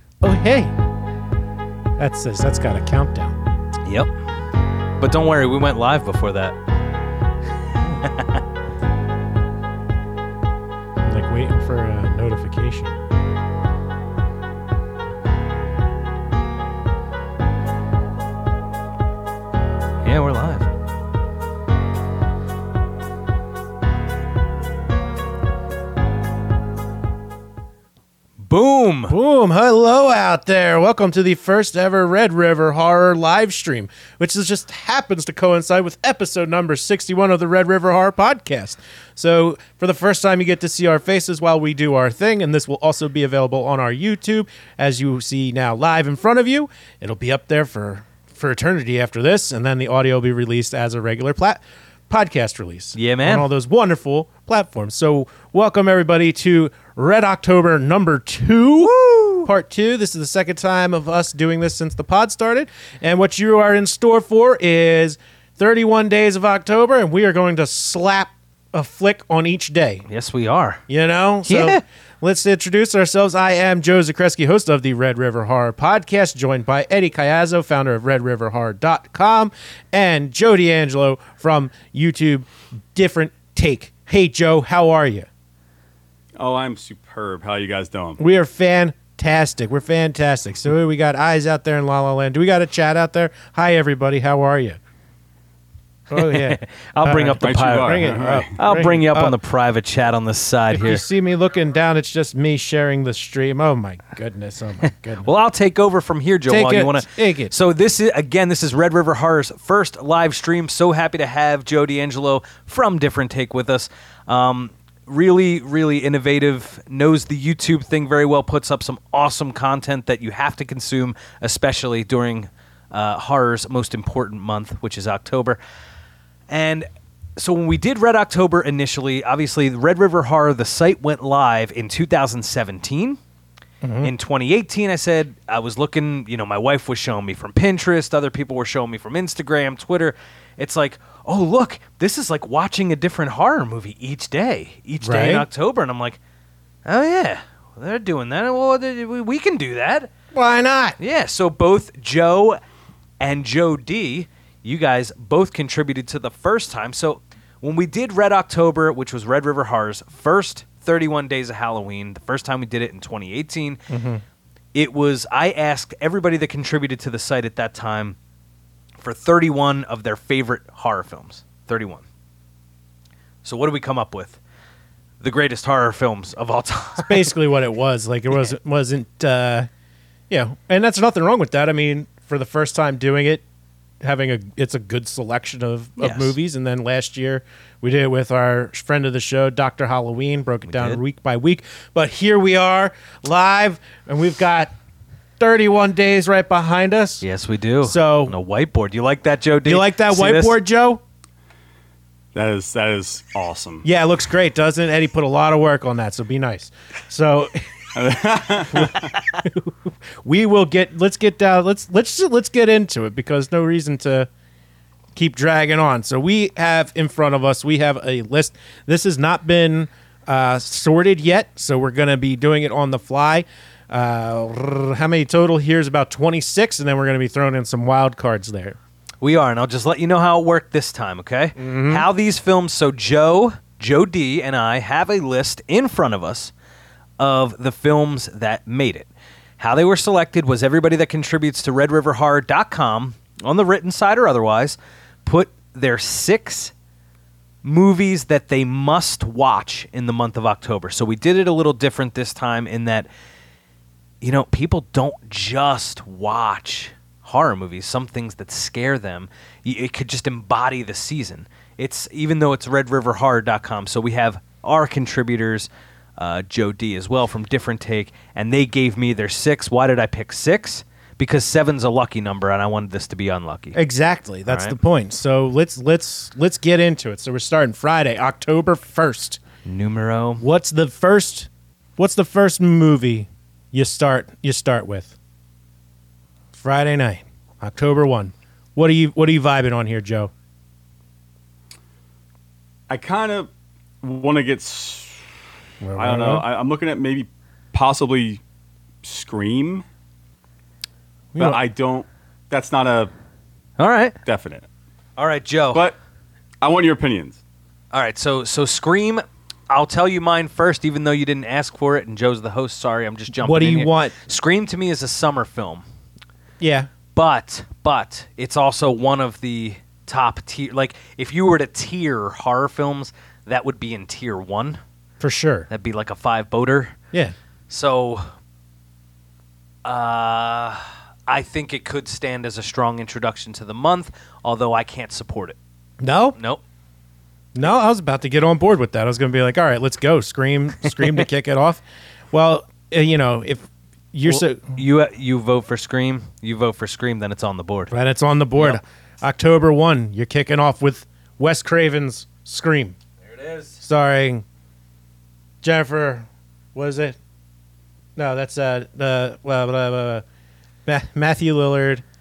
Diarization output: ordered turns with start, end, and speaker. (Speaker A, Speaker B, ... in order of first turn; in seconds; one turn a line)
Speaker A: 0.2-0.7
Speaker A: 2.0-3.4
Speaker B: 3.9-4.1
Speaker B: 5.0-6.5
Speaker B: 7.8-8.4
Speaker A: 11.0-13.0
Speaker B: 20.0-20.7
Speaker B: 28.4-29.1
Speaker A: 29.1-70.0
Speaker B: 53.0-53.5
Speaker B: 58.8-59.5
Speaker B: 70.1-70.8
Speaker A: 70.9-85.3
Speaker B: 71.5-71.8
Speaker C: 86.4-88.2
Speaker A: 88.2-94.8
Speaker A: 96.1-99.4
Speaker B: 96.1-101.0
Speaker C: 97.4-98.5
Speaker A: 100.7-105.3
Speaker B: 105.2-125.6
Speaker A: 106.5-107.5
Speaker B: 126.5-133.2
Speaker A: 133.8-134.1
Speaker B: 134.0-146.2
Speaker A: 145.0-145.4
Speaker B: 146.8-150.1
Speaker A: 150.3-151.0
Speaker B: 151.0-152.6
Speaker B: 153.2-163.9
Speaker A: 163.9-164.2
Speaker B: 164.7-168.2
Speaker B: 169.0-172.0
Speaker B: 173.4-174.4
Speaker B: 175.2-177.3
Speaker A: 177.0-179.7
Speaker A: 180.3-183.4
Speaker A: 184.0-194.7
Speaker B: 186.0-186.3
Speaker B: 190.7-191.0
Speaker A: 195.4-197.2
Speaker B: 197.2-200.6
Speaker A: 197.8-198.3
Speaker A: 199.6-201.0
Speaker C: 202.3-203.8
Speaker A: 203.8-207.6
Speaker C: 207.9-209.1
Speaker A: 208.7-214.3
Speaker A: 215.1-228.8
Speaker B: 229.2-236.5
Speaker A: 231.6-232.1
Speaker B: 237.2-246.7
Speaker B: 247.6-253.1
Speaker B: 254.2-273.8
Speaker A: 273.7-279.4
Speaker B: 274.5-274.8
Speaker B: 279.6-280.4
Speaker A: 280.4-285.1
Speaker A: 286.5-290.3
Speaker C: 292.9-293.5
Speaker C: 294.0-295.2
Speaker A: 295.8-296.4
Speaker C: 295.9-298.4
Speaker C: 299.0-299.8
Speaker A: 301.3-301.6
Speaker C: 301.4-303.1
Speaker B: 303.8-304.1
Speaker C: 304.2-304.6
Speaker B: 305.2-305.8
Speaker C: 306.6-307.4
Speaker B: 307.9-315.8
Speaker A: 313.3-314.1
Speaker A: 316.6-316.9
Speaker B: 317.1-324.8
Speaker A: 325.2-325.7
Speaker B: 325.7-326.9
Speaker B: 327.7-328.3
Speaker B: 329.8-335.6
Speaker A: 336.0-336.4
Speaker A: 337.5-344.8
Speaker B: 344.2-347.9
Speaker A: 347.9-352.9
Speaker B: 353.2-353.8
Speaker A: 353.8-354.4
Speaker A: 355.6-357.2
Speaker A: 358.1-360.2
Speaker A: 360.9-362.0